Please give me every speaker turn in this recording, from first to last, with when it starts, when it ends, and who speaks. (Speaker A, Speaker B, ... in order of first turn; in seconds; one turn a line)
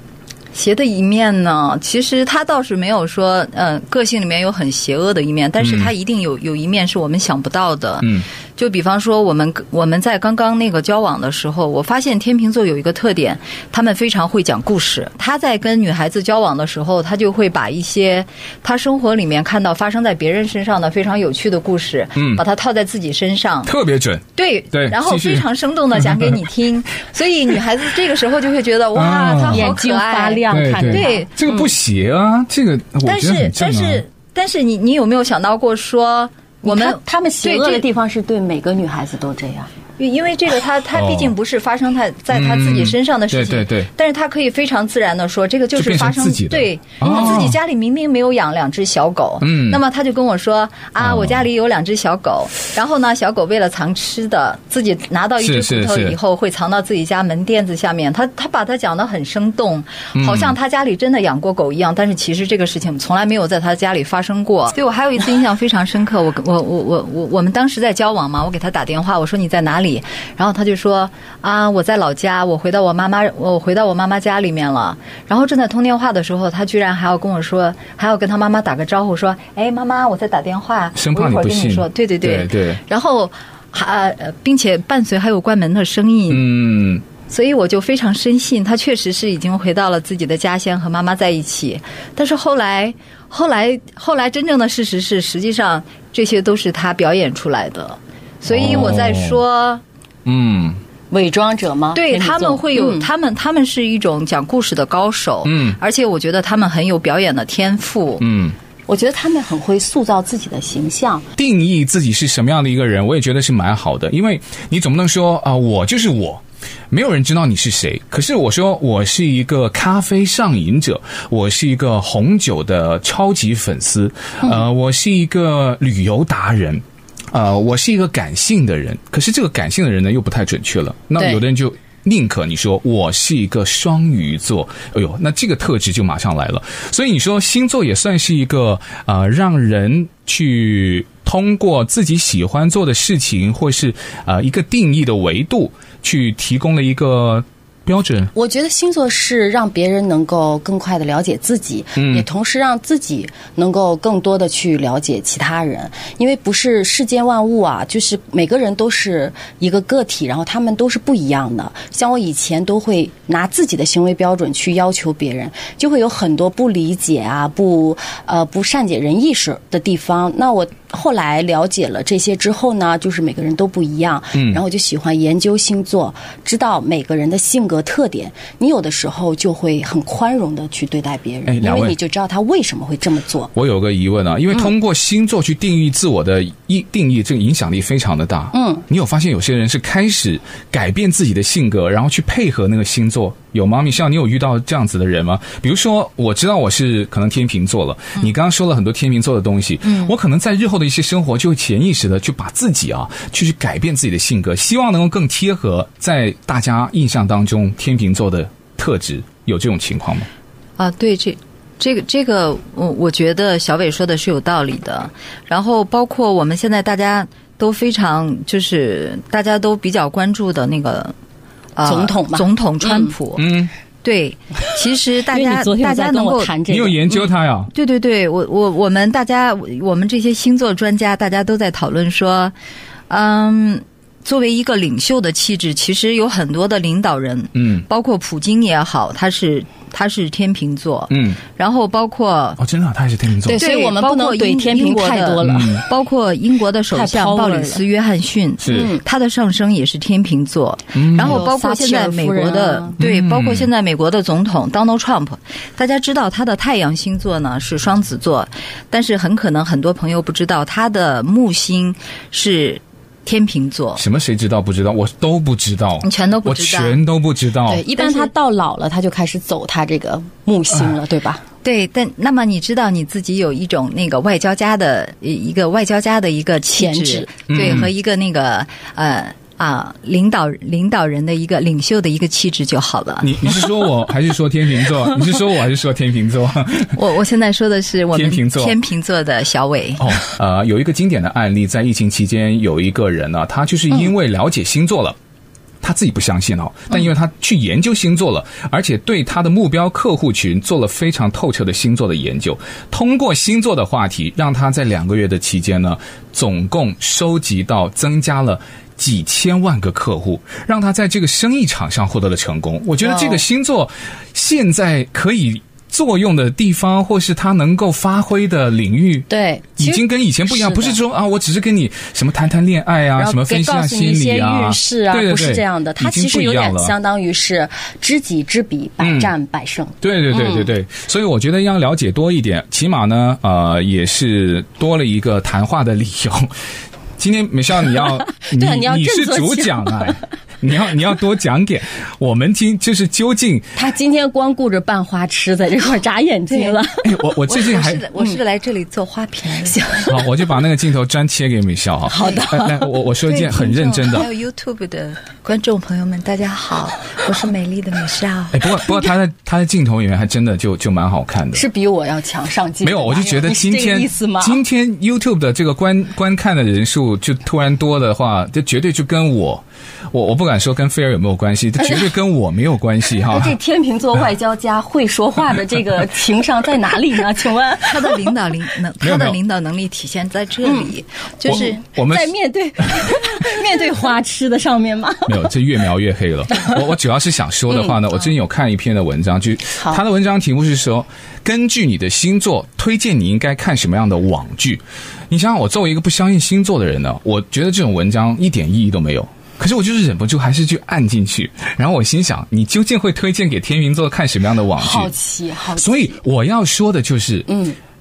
Speaker A: 0.5-23.7
Speaker B: 5.6-5.9
Speaker B: 22.2-22.4
Speaker B: 23.6-25.5
Speaker A: 24.4-31.3
Speaker B: 26.0-26.3
Speaker B: 28.9-29.7
Speaker C: 29.5-31.7
Speaker B: 30.5-34.0
Speaker A: 33.0-37.9
Speaker C: 36.6-39.7
Speaker A: 40.0-86.5
Speaker B: 40.9-41.3
Speaker B: 42.3-43.9
Speaker B: 45.8-47.6
Speaker C: 47.0-47.4
Speaker B: 49.4-49.8
Speaker B: 51.0-51.4
Speaker B: 55.4-56.2
Speaker B: 60.1-60.5
Speaker B: 81.0-82.8
Speaker B: 86.3-87.0
Speaker A: 87.3-99.8
Speaker B: 98.5-99.4
Speaker B: 100.3-100.8
Speaker C: 101.1-103.1
Speaker A: 102.0-108.3
Speaker B: 105.5-105.8
Speaker B: 108.2-108.5
Speaker C: 108.9-111.3
Speaker B: 111.4-148.3
Speaker C: 148.3-183.5
Speaker B: 152.0-152.3
Speaker B: 174.3-174.6
Speaker B: 181.5-182.0
Speaker B: 183.6-210.3
Speaker C: 188.5-188.8
Speaker A: 199.9-200.1
Speaker A: 210.8-221.1
Speaker A: 221.8-223.5
Speaker C: 221.8-223.1
Speaker B: 223.4-223.7
Speaker A: 224.0-226.5
Speaker C: 225.3-227.2
Speaker B: 226.7-227.7
Speaker A: 227.7-232.5
Speaker A: 233.1-242.6
Speaker B: 237.6-237.8
Speaker B: 241.1-241.4
Speaker B: 242.6-243.6
Speaker C: 243.5-245.8
Speaker A: 243.6-264.0
Speaker B: 245.4-245.8
Speaker C: 246.9-247.8
Speaker B: 248.6-248.9
Speaker C: 248.7-249.0
Speaker B: 250.9-251.4
Speaker C: 251.2-253.0
Speaker B: 253.0-253.7
Speaker B: 264.0-267.9
Speaker A: 266.0-267.0
Speaker C: 267.7-271.4
Speaker A: 268.0-268.3
Speaker A: 271.6-283.4
Speaker C: 276.7-277.5
Speaker B: 277.5-277.9
Speaker B: 283.2-287.0
Speaker A: 286.9-290.2
Speaker B: 288.1-288.8
Speaker B: 290.0-295.2
Speaker B: 295.8-326.9
Speaker C: 313.0-313.4
Speaker C: 319.3-321.0
Speaker C: 323.2-330.7
Speaker B: 329.0-329.3
Speaker B: 330.0-336.5
Speaker B: 337.2-343.7
Speaker C: 338.4-340.2
Speaker C: 343.8-347.1
Speaker A: 346.5-346.8
Speaker B: 347.0-348.0
Speaker A: 347.5-349.8
Speaker C: 349.6-350.3
Speaker B: 350.1-354.3
Speaker C: 352.1-352.9
Speaker A: 353.3-358.6
Speaker B: 358.5-361.6
Speaker C: 361.5-364.6
Speaker B: 362.8-373.6
Speaker C: 371.8-372.1
Speaker C: 373.2-378.3
Speaker A: 377.8-381.8
Speaker B: 379.0-379.4
Speaker C: 380.6-380.9
Speaker C: 381.5-385.5
Speaker B: 381.5-382.3
Speaker B: 382.9-383.4
Speaker B: 385.3-405.1
Speaker C: 387.7-388.0
Speaker C: 389.8-390.0
Speaker C: 404.8-406.2
Speaker B: 405.8-407.5
Speaker C: 407.5-407.8